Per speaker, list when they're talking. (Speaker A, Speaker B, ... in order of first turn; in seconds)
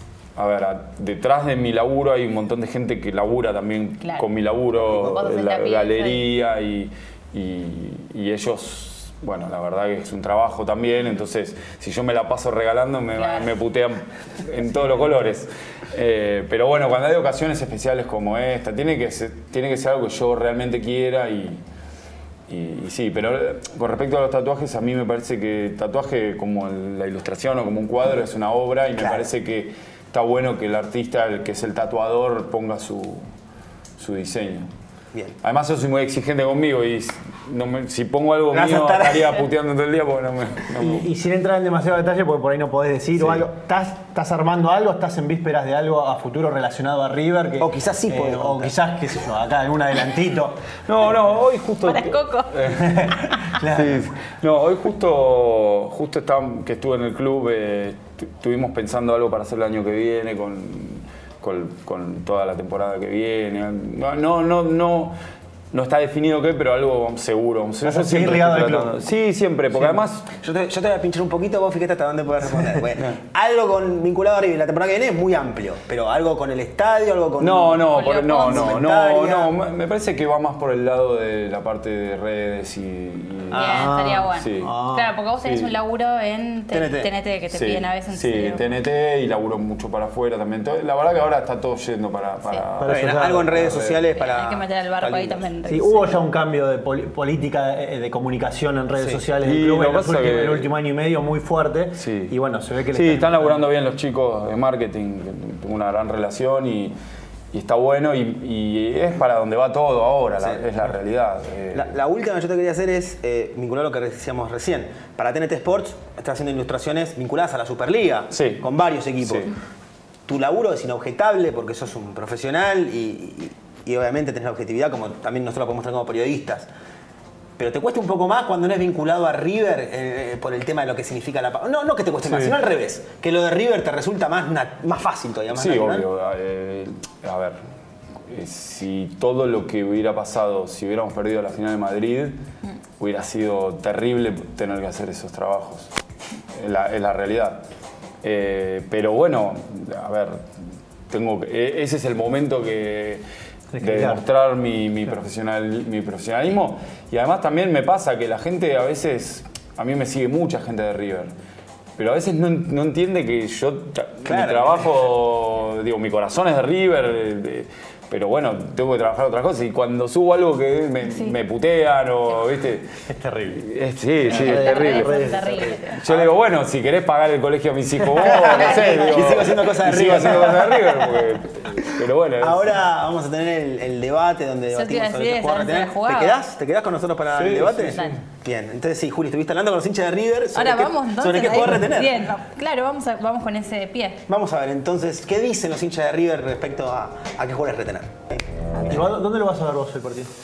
Speaker A: 0.4-21.6, 22.5-33.2, 34.0-34.7, 35.4-41.1, 43.2-43.5, 50.9-53.0, 53.6-65.2, 65.7-70.3, 77.4-84.8, 85.4-85.8, 87.5-94.0, 99.4-100.7, 102.0-102.3, 102.9-107.0, 107.5-112.0, 118.3-118.7, 119.2-119.5, 132.2-132.6, 135.5-137.6, 138.3-142.4, 143.0-145.9, 146.6-147.7, 148.2-150.5, 151.1-153.2, 153.8-161.3, 162.0-172.9, 173.5-175.2, 175.9-182.8, 187.3-188.2
Speaker B: 4.0-4.3, 5.0-6.3, 13.2-13.5, 51.8-53.1, 77.9-78.8, 83.5-88.7, 94.1-96.2, 171.1-171.4, 174.3-176.1, 184.7-186.4, 187.9-188.2, 190.6-194.2, 198.8-199.1
Speaker C: 4.8-5.1, 29.0-29.3, 38.5-39.4, 47.6-48.8, 70.4-79.5, 83.5-85.0, 86.7-87.1, 92.9-95.5, 99.0-99.2, 110.4-110.6, 111.7-119.5, 120.3-126.7, 127.6-136.1, 164.2-165.1, 176.1-176.4, 178.1-181.1, 182.4-192.2, 194.3-199.1
Speaker D: 40.8-50.6, 53.0-54.1, 67.8-69.0, 92.8-93.6, 95.7-103.7, 153.7-154.2, 173.1-173.6, 174.2-175.8, 198.9-200.3